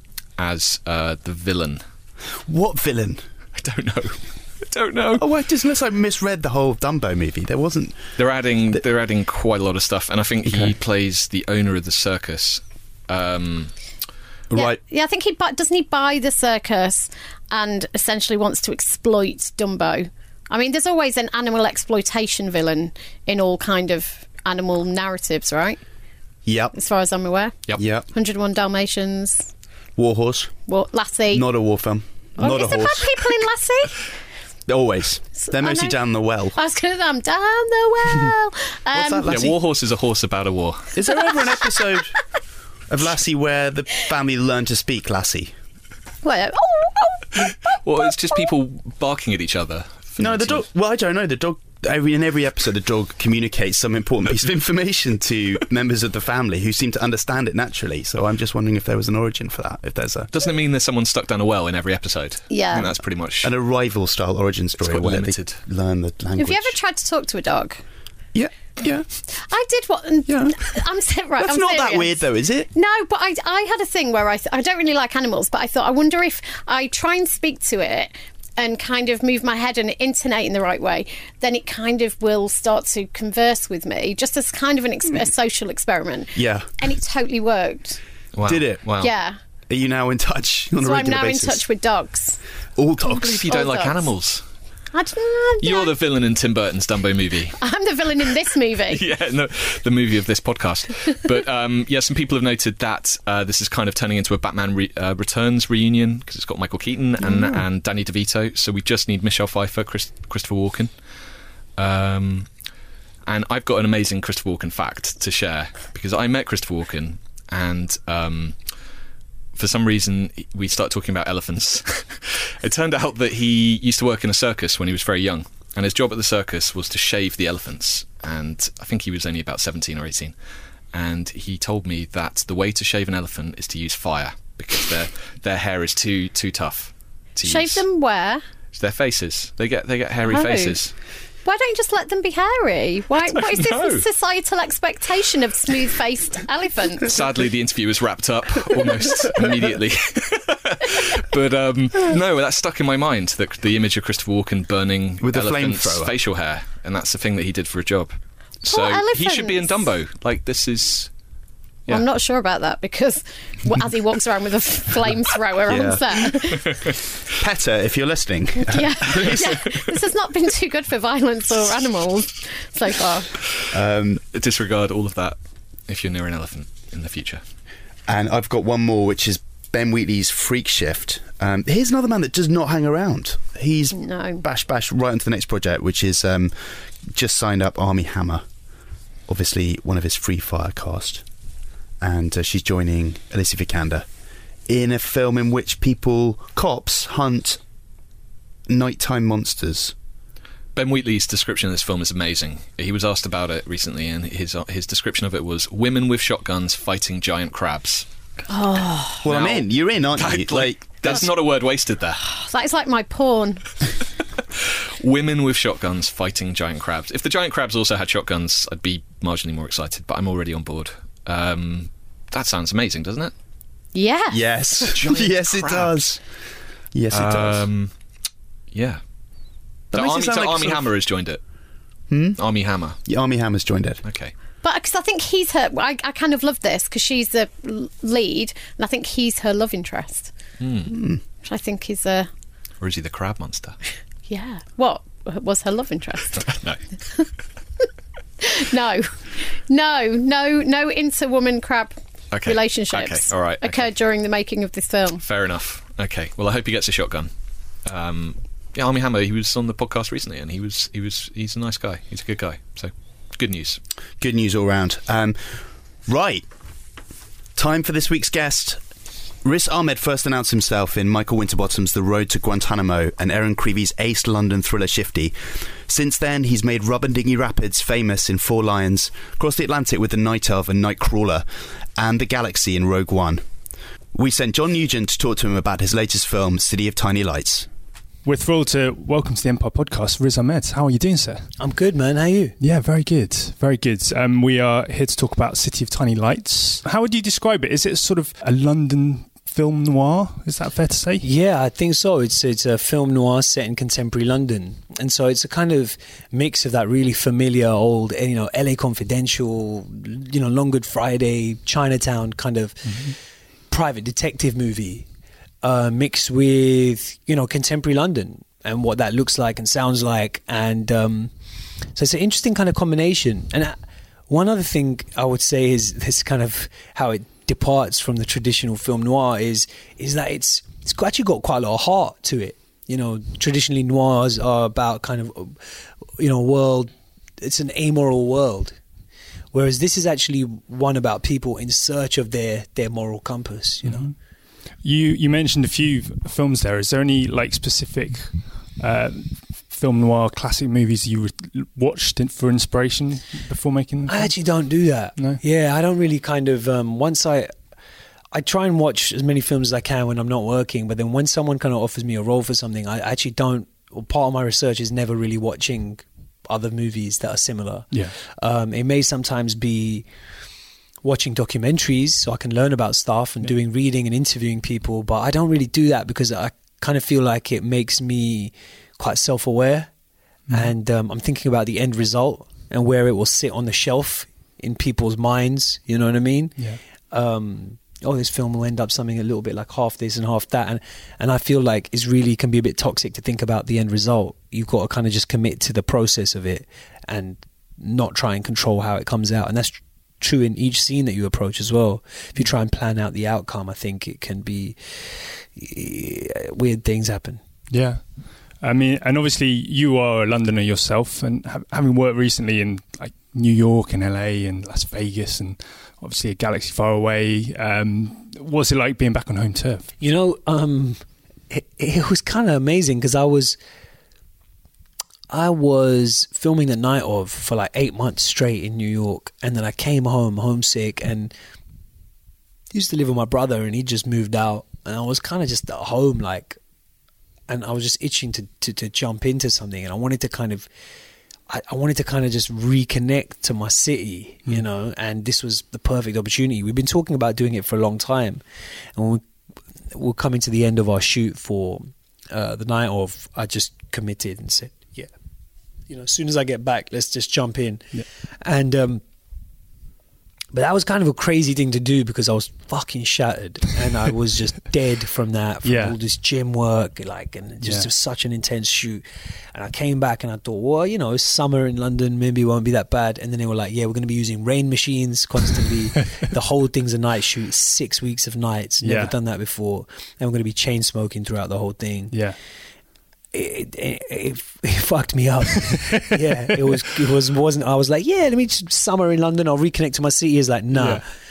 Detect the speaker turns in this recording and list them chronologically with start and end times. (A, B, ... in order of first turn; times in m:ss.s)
0:00.4-0:01.8 A
0:02.4-0:03.2 B
0:03.6-0:05.2 A
0:05.2-0:08.0 B
0:08.2-0:13.7 A
0:10.4-0:10.7 B
0:14.5-0:14.8 B
0:14.5-0:25.8 C
0:26.4-0:26.7 B
0:26.7-0:29.5 C
0:27.8-0:28.1 B
0:30.0-0:30.5 B
0:30.7-0:31.5 C
0:31.3-0:33.2 B
0:32.4-0:34.0 C
0:34.7-0:36.6 B
0:35.4-0:36.0 C
0:36.5-0:39.4 C
0:38.9-0:39.6 B
0:39.3-0:40.9 A
0:40.9-0:42.2 B
0:42.9-0:45.5 B
0:46.2-0:47.5 C
0:47.7-0:50.6 A
0:50.2-1:00.3 B
1:00.3-1:03.5 A
1:02.5-1:02.9 C
1:03.4-1:06.8 B
1:04.8-1:05.6 A
1:06.4-1:07.8 C
1:08.3-1:09.0 B
1:09.3-1:28.0 C
1:10.3-1:10.6 B
1:11.4-1:12.7 B
1:26.3-1:26.7 B
1:28.3-1:29.1 A
1:28.4-1:28.8 B
1:29.0-1:29.4 C
1:29.7-1:31.6 B
1:30.8-1:32.4 C
1:32.8-1:33.4 B
1:33.1-1:34.1 C
1:33.1-1:34.4 A
1:34.9-1:35.9 C
1:35.6-1:37.6 A
1:37.6-1:39.0 C
1:38.9-1:50.9 A
1:47.2-1:47.6 C
1:51.8-1:52.5 A
1:53.2-1:58.6 A
1:59.5-2:10.3 A
2:10.9-2:17.8 A
2:17.4-2:18.4 C
2:18.7-2:20.9 A
2:20.3-2:20.8 C
2:21.4-2:27.2 C
2:23.3-2:24.0 A
2:27.0-2:41.1 A
2:35.2-2:36.1 B
2:38.6-2:39.8 C
2:41.9-2:46.8 C
2:45.7-2:46.3 B
2:47.3-2:49.7 B
2:48.6-2:53.3 C
2:53.7-2:54.2 B
2:54.3-2:55.4 A
2:55.9-2:57.4 A
2:58.1-3:08.4 B
3:03.9-3:04.4 C
3:09.3-3:11.2 B
3:12.0-3:14.0 B
3:14.7-3:17.6 B
3:18.7-3:19.9 B
3:20.7-3:28.1 A
3:28.5-3:29.2 C
3:29.2-3:31.2 B
3:29.2-3:32.2 A
3:32.2-3:33.7 C
3:35.0-3:43.3 A
3:43.9-3:44.4 C
3:44.3-3:46.2 B
3:44.9-3:46.0 A
3:46.9-3:47.6 B
3:47.1-3:47.9 A
3:48.7-3:49.0 A
3:49.9-3:50.9 B
3:49.9-3:51.4 A
3:52.1-3:52.4 B
3:52.4-3:53.0 A
3:53.0-3:54.0 B
3:54.0-3:54.3 A
3:54.6-4:00.3 C
4:00.6-4:00.9 A
4:00.9-4:01.2 B
4:01.4-4:02.3 C
4:02.8-4:03.8 A
4:04.3-4:07.3 C
4:06.4-4:06.8 A
4:08.4-4:15.2 C
4:12.3-4:13.9 A
4:15.2-4:17.3 A
4:17.8-4:23.8 A
4:24.2-4:26.5 B
4:27.6-4:28.8 B
4:29.4-4:41.4 B
4:42.0-4:43.4 B
4:44.1-4:47.7 B
4:48.2-4:51.5 D
4:51.6-4:52.6 E
4:52.6-5:01.2 D
5:01.2-5:13.2 E
5:12.9-5:13.1 D
5:13.7-5:15.0 E
5:15.6-5:21.3 E
5:21.9-5:23.8 E
5:24.3-5:35.6 E
5:36.2-5:38.8 E
5:39.5-5:44.0 E
5:43.8-5:44.1 D
5:44.8-5:54.3 D
5:54.1-5:57.5 E
5:58.3-6:10.1 E
6:11.0-6:19.9 E
6:20.5-6:20.7 D
6:20.5-6:26.6 E
6:27.1-6:47.4 E
6:47.7-6:48.1 D
6:48.6-6:59.9 D
7:00.0-7:03.6 E
7:05.3-7:11.3 E
7:12.7-7:16.6 E
7:17.5-7:20.7 E
7:21.5-7:28.4 E
7:28.9-7:29.2 E
7:29.9-7:35.1 E
7:35.9-7:39.0 E
7:40.5-7:49.0 E
7:45.6-7:46.0 D
7:47.6-7:47.9 D
7:49.5-8:02.2 E
7:58.8-7:59.2 D
8:02.1-8:02.4 D
8:03.3-8:11.0 E
8:05.7-8:06.8 D
8:10.7-8:11.0 D